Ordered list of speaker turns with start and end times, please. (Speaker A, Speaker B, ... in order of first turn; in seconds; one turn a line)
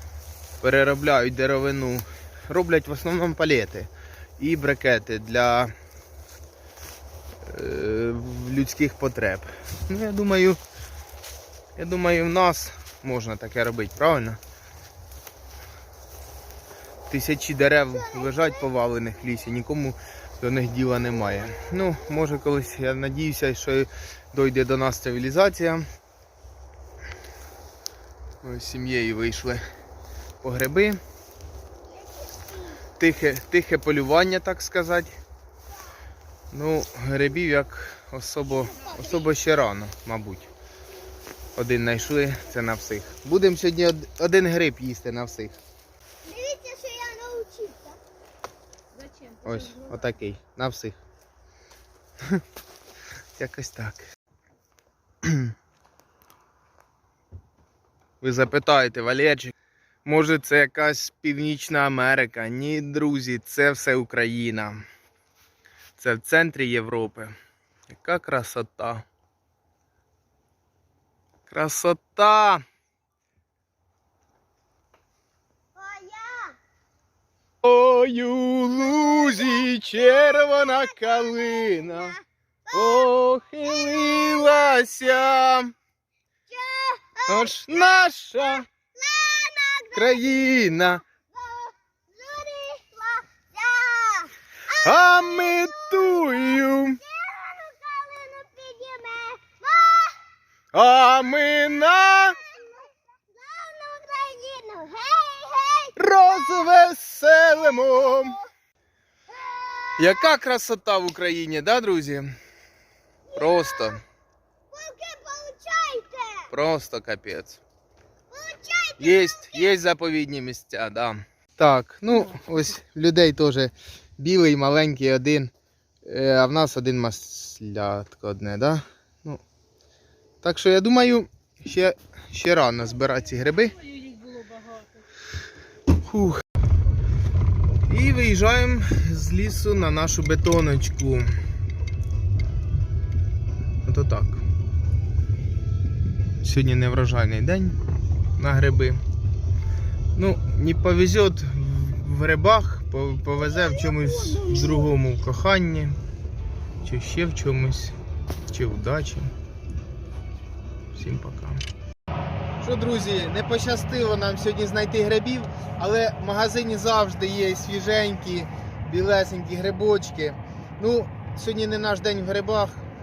Speaker A: 0.6-5.7
Speaker A: 7.5-10.6
Speaker A: 11.8-14.4
Speaker A: 17.1-25.9
Speaker B: 17.9-18.6
Speaker A: 28.4-29.6
Speaker A: 30.4-31.0
Speaker B: 32.0-32.8
Speaker A: 33.0-35.2
Speaker A: 36.5-40.5
Speaker B: 38.7-39.3
Speaker A: 41.6-45.5
Speaker B: 46.2-48.0
Speaker C: 49.0-50.0
Speaker A: 49.4-51.0
Speaker A: 53.4-54.1
Speaker A: 55.2-55.5
Speaker A: 58.2-59.5
Speaker A: 60.0-64.8
Speaker A: 66.0-67.3
Speaker A: 67.9-69.1
Speaker A: 71.5-72.6
Speaker B: 75.8-76.6
Speaker A: 77.6-82.2
Speaker B: 78.7-85.4
Speaker A: 82.7-85.7
Speaker B: 86.5-100.2
Speaker A: 87.3-88.7
Speaker A: 89.9-91.0
Speaker A: 94.7-97.0
Speaker A: 100.7-102.4
Speaker B: 102.1-106.7
Speaker A: 106.0-108.4
Speaker B: 107.4-108.5
Speaker B: 109.3-110.3
Speaker A: 110.0-112.3
Speaker B: 113.3-114.0
Speaker A: 113.3-114.0
Speaker B: 114.7-116.5
Speaker A: 116.5-117.6
Speaker B: 118.3-119.8
Speaker A: 119.0-125.5
Speaker A: 126.0-129.4
Speaker A: 130.4-133.8
Speaker C: 133.9-134.8
Speaker A: 136.0-136.4
Speaker A: 137.9-141.3
Speaker A: 143.8-144.4
Speaker A: 146.4-147.8
Speaker A: 148.4-149.0
Speaker A: 150.2-156.0
Speaker B: 153.4-154.9
Speaker A: 156.8-157.9
Speaker A: 158.5-159.3
Speaker A: 160.9-161.6
Speaker A: 162.6-172.8